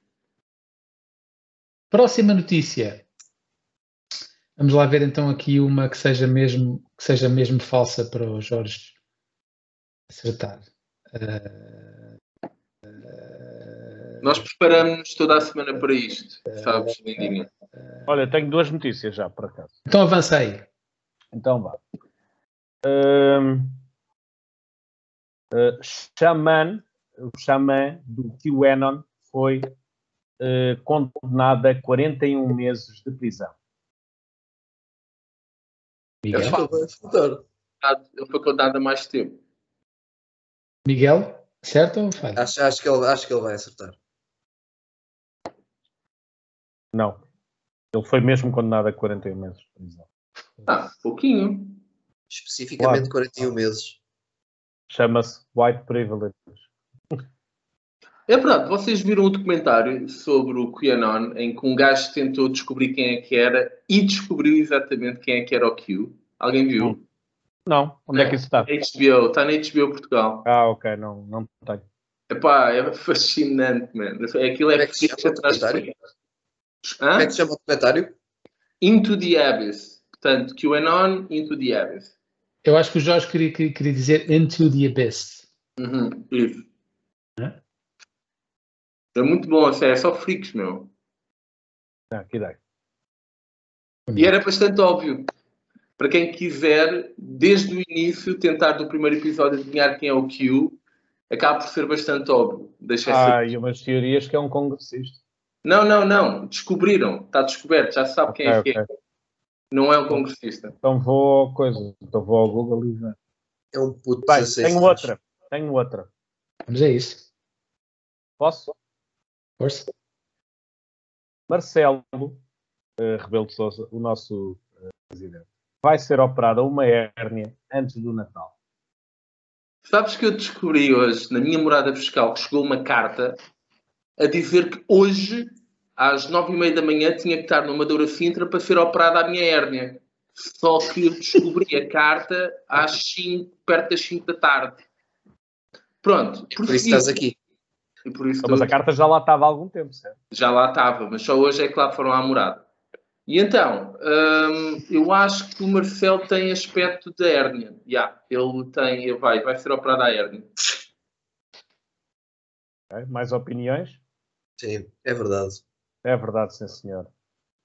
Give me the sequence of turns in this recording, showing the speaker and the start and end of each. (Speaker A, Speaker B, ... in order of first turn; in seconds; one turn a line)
Speaker A: 1.9-3.0
Speaker A: 4.6-8.9
Speaker A: 10.1-11.9
Speaker A: 13.0-13.8
Speaker B: 14.2-17.5
Speaker C: 18.1-19.8
Speaker A: 19.9-20.6
Speaker C: 21.3-21.8
Speaker C: 22.8-23.8
Speaker C: 25.5-29.8
Speaker C: 30.4-33.5
Speaker A: 36.2-36.6
Speaker B: 36.3-36.8
Speaker D: 36.3-37.4
Speaker B: 37.8-39.4
Speaker A: 40.9-42.4
Speaker D: 42.4-44.0
Speaker C: 46.9-47.2
Speaker C: 47.9-50.0
Speaker B: 50.7-51.8
Speaker D: 52.3-54.0
Speaker C: 52.8-53.1
Speaker C: 54.9-56.6
Speaker B: 58.3-67.0
Speaker C: 67.7-68.7
Speaker B: 68.1-70.5
Speaker C: 70.5-71.8
Speaker B: 72.3-76.0
Speaker D: 74.7-75.9
Speaker B: 77.0-77.3
Speaker D: 77.2-78.2
Speaker B: 78.8-82.1
Speaker A: 82.6-85.4
Speaker B: 85.8-86.7
Speaker B: 89.2-90.9
Speaker C: 92.1-92.6
Speaker B: 94.2-95.3
Speaker B: 96.0-100.8
Speaker B: 101.3-103.4
Speaker C: 103.1-105.2
Speaker B: 105.6-108.8
Speaker C: 108.3-108.8
Speaker B: 109.7-110.8
Speaker C: 110.8-113.2
Speaker D: 113.7-115.1
Speaker C: 114.3-116.1
Speaker A: 116.7-117.2
Speaker C: 118.4-118.8
Speaker A: 119.6-119.9
Speaker C: 121.5-122.4
Speaker C: 123.0-128.5
Speaker B: 129.9-133.4
Speaker B: 134.2-144.8
Speaker B: 146.0-147.2
Speaker D: 146.6-147.4
Speaker B: 148.1-148.8
Speaker C: 148.4-150.2
Speaker B: 150.3-152.7
Speaker B: 153.3-160.5
Speaker C: 162.9-164.0
Speaker D: 164.6-165.6
Speaker C: 166.0-167.1